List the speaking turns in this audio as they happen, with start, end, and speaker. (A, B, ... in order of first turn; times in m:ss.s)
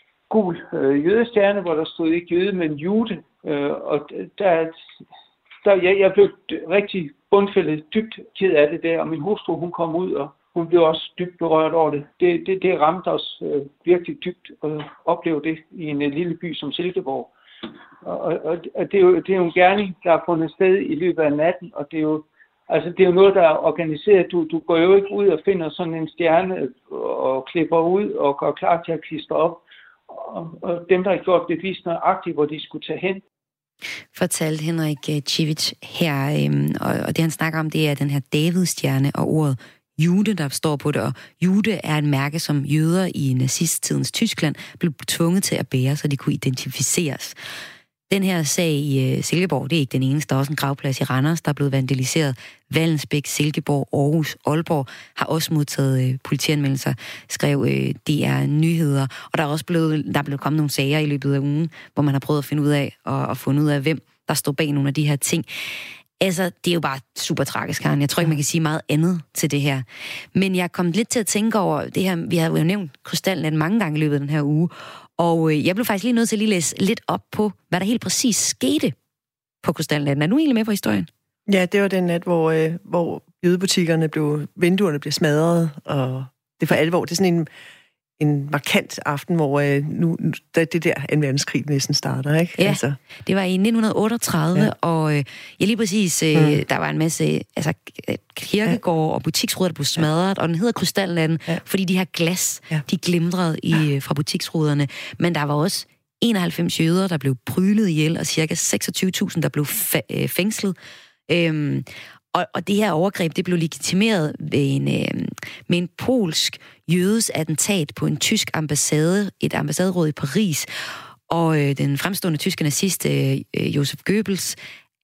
0:00.3-0:04.8 A
0:05.6-0:17.3 A
0:18.0-0:33.2 A
0:34.1-0:47.4 B
0:48.1-1:05.5 B
1:06.2-1:18.9 B
1:19.6-1:21.1 B
1:21.5-1:27.5 C
1:28.2-1:33.0 C
1:32.6-1:50.8 B
1:36.3-1:36.6 C
1:51.3-2:00.7 B
2:01.3-2:04.6 B